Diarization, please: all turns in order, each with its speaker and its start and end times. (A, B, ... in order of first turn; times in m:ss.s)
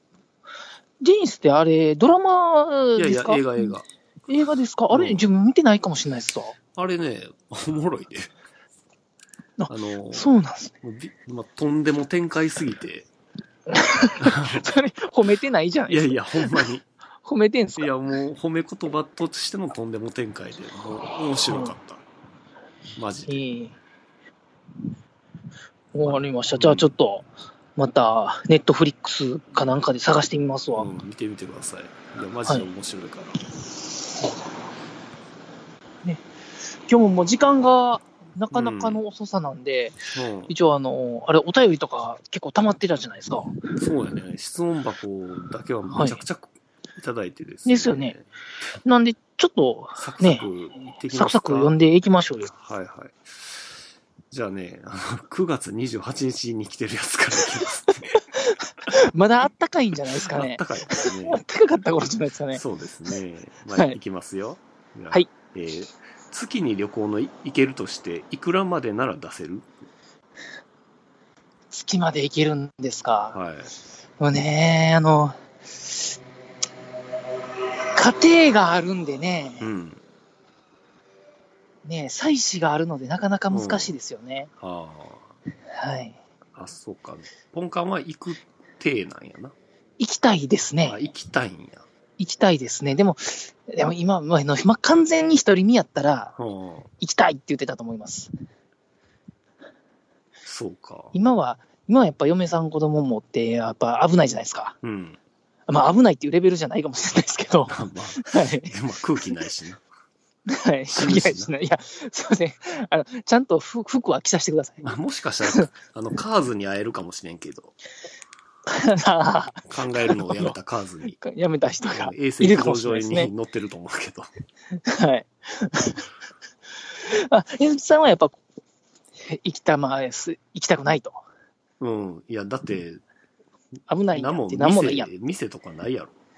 0:01.0-0:03.7 A
0:03.0-0:03.9 B
0:04.3-0:06.6 A
0:04.9-0:05.3 B
0:06.8-0:08.3 B
0:09.6-0:10.7 A
0:09.7-0:10.3 B
0:10.8-0:13.1 B
0:13.7-0:16.7 A
0:14.2-0:14.7 B
0:15.9-0:16.9 B
0:17.2-0:17.9 A
0:17.8-0:22.0 B
0:21.5-0:21.7 A
0:23.0-0:23.4 B
0:23.3-0:23.8 A
0:25.9-0:30.9 A
0:26.0-0:26.9 B
0:30.8-0:33.4 B
0:36.9-0:40.0 A
0:38.5-0:39.0 B
0:40.1-0:40.5 B
0:40.5-0:43.6 A
0:43.8-0:48.3 B
0:45.9-0:46.2 A
0:47.7-0:48.2 A
0:48.8-0:50.5 A
0:50.0-0:51.7 B
0:51.1-0:52.5 A
0:52.5-0:53.7 B
0:54.3-0:58.2 B
0:58.1-1:02.6 A
1:00.2-1:01.4 B
1:02.5-1:09.7 B
1:03.7-1:04.0 A
1:11.7-1:13.4 A
1:13.3-1:13.7 B
1:14.2-1:15.4 A
1:18.0-1:19.7 A
1:19.6-1:20.0 B
1:21.8-1:24.5 A
1:23.5-1:24.0 B
1:24.6-1:25.3 B
1:25.8-1:26.2 A
1:26.6-1:29.6 B
1:30.0-1:31.0 A
1:30.8-1:31.9 B
1:32.2-1:36.3 A
1:36.4-1:36.9 B
1:37.0-1:38.3 A
1:40.4-1:41.2 B
1:41.1-1:44.8 A
1:44.8-1:45.2 B
1:45.7-1:48.7 A
1:47.7-1:49.8 B
1:50.5-1:54.9 A
1:50.9-1:51.5 B
1:54.8-1:57.8 B
1:58.7-2:00.6 A
1:59.7-2:01.2 B
2:01.2-2:03.3 A
2:01.9-2:04.3 B
2:04.8-2:06.0 A
2:07.0-2:08.4 A
2:09.2-2:11.2 A
2:11.8-2:13.0 B
2:13.9-2:15.1 A
2:14.1-2:16.1 B